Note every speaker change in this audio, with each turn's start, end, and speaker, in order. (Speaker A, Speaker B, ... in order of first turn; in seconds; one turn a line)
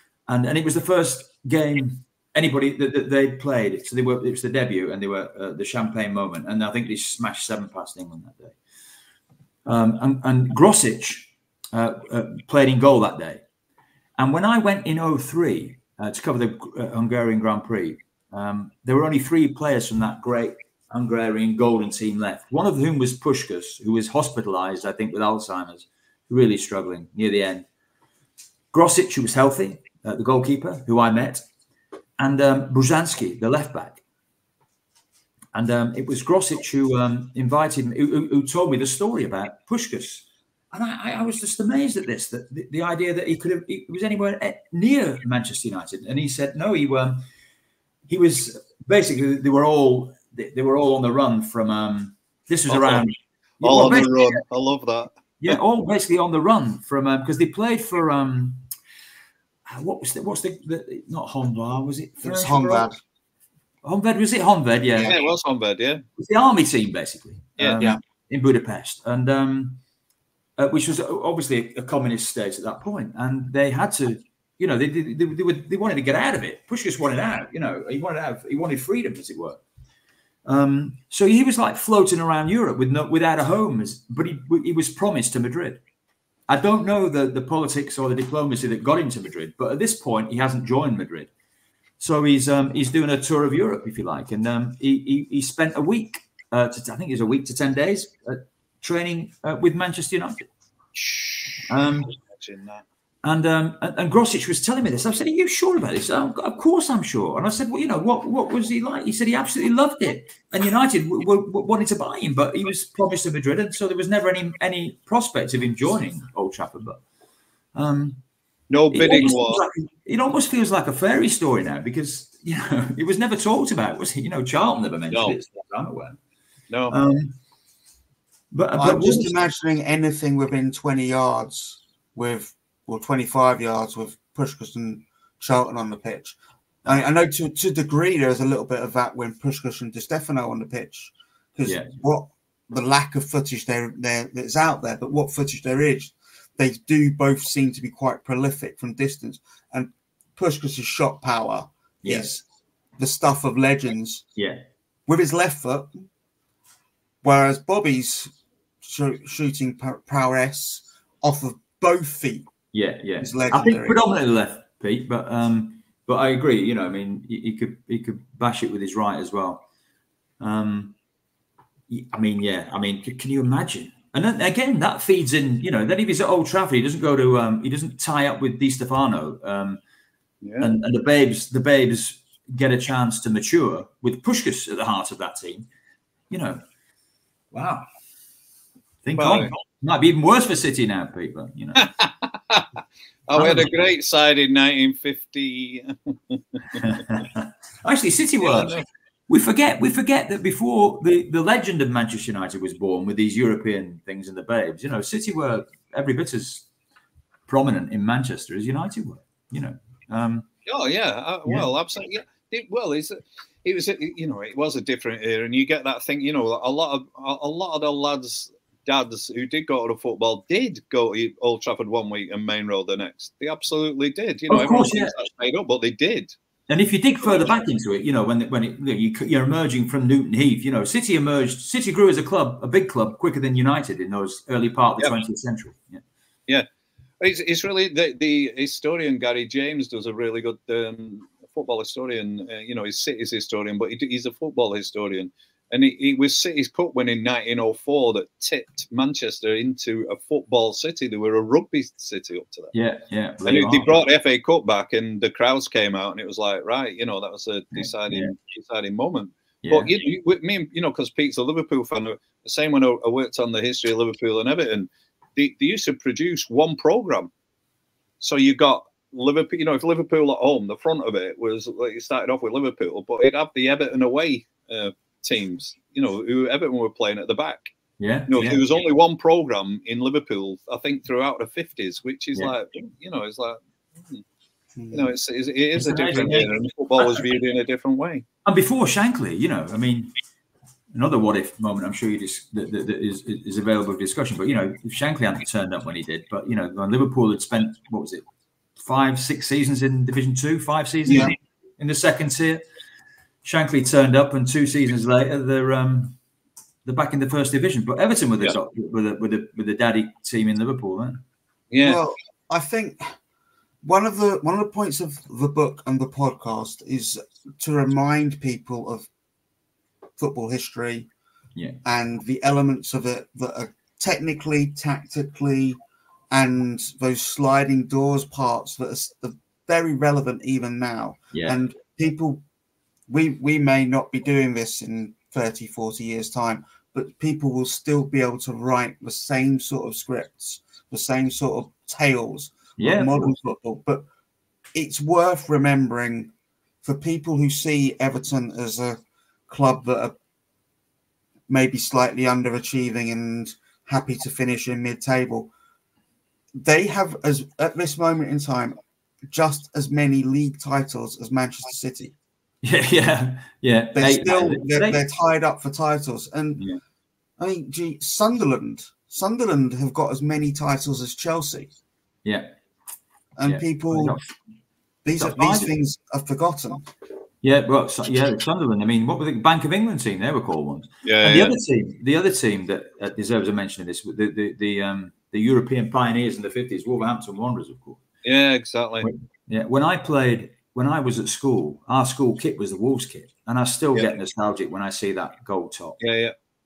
Speaker A: 0.3-8.6
Speaker A: 9.7-13.4
Speaker A: 14.2-27.7
Speaker A: 28.7-31.4
Speaker A: 32.2-34.0
Speaker A: 35.5-47.2
Speaker A: 48.1-54.4
Speaker B: 52.7-53.1
Speaker B: 53.6-55.6
Speaker A: 55.4-58.6
Speaker A: 59.7-62.9
Speaker C: 62.2-63.0
Speaker A: 63.8-65.2
Speaker B: 65.0-66.0
Speaker A: 66.2-69.8
Speaker B: 67.6-67.9
Speaker A: 70.6-79.6
Speaker A: 80.5-85.8
Speaker A: 86.5-91.3
Speaker A: 92.0-100.5
Speaker B: 101.0-102.8
Speaker A: 101.7-102.1
Speaker A: 103.2-117.0
Speaker A: 117.8-118.2
Speaker B: 118.7-119.6
Speaker A: 118.9-126.2
Speaker B: 126.7-127.0
Speaker A: 126.9-127.3
Speaker A: 128.5-129.4
Speaker C: 128.8-152.4
Speaker A: 141.7-141.9
Speaker A: 152.0-152.4
Speaker C: 153.0-154.2
Speaker A: 154.4-154.6
Speaker C: 155.1-156.0
Speaker C: 157.2-162.5
Speaker A: 162.7-169.6
Speaker C: 163.2-164.0
Speaker A: 170.4-170.9
Speaker A: 171.9-179.8
Speaker B: 180.4-180.7
Speaker A: 180.6-185.7
Speaker A: 186.3-186.6
Speaker A: 187.5-187.9
Speaker A: 189.0-191.9
Speaker B: 189.2-189.5
Speaker B: 191.8-197.0
Speaker A: 193.4-193.7
Speaker A: 196.8-198.8
Speaker B: 198.4-198.9
Speaker A: 199.3-206.7
Speaker A: 207.5-210.5
Speaker B: 210.7-226.3
Speaker A: 224.5-225.1
Speaker A: 226.7-236.0
Speaker B: 227.2-227.5
Speaker B: 237.2-252.7
Speaker A: 252.7-254.1
Speaker B: 253.4-267.3
Speaker A: 257.8-258.3
Speaker A: 259.6-260.0
Speaker B: 268.2-277.7
Speaker A: 278.0-278.6
Speaker B: 278.3-284.2
Speaker C: 284.8-285.1
Speaker B: 284.9-288.2
Speaker A: 285.8-287.3
Speaker A: 288.4-290.1
Speaker A: 290.9-298.2
Speaker A: 298.8-302.6
Speaker C: 301.1-301.4
Speaker A: 303.4-306.2
Speaker A: 306.9-311.2
Speaker B: 311.7-312.0
Speaker C: 311.8-313.1
Speaker C: 313.8-319.1
Speaker C: 320.2-321.1
Speaker C: 321.9-325.8
Speaker C: 326.3-332.4
Speaker C: 333.1-344.1
Speaker A: 342.8-343.3
Speaker C: 344.7-346.3
Speaker C: 346.8-350.2
Speaker C: 351.5-355.5
Speaker C: 356.5-362.1
Speaker A: 362.6-365.0
Speaker C: 363.9-366.6
Speaker C: 367.4-371.7
Speaker A: 372.2-372.5
Speaker C: 373.4-374.2
Speaker A: 373.4-374.3
Speaker C: 375.1-376.9
Speaker A: 375.2-375.7
Speaker A: 377.4-388.0
Speaker B: 381.0-381.6
Speaker B: 388.2-389.1
Speaker A: 389.0-396.0
Speaker B: 396.0-396.4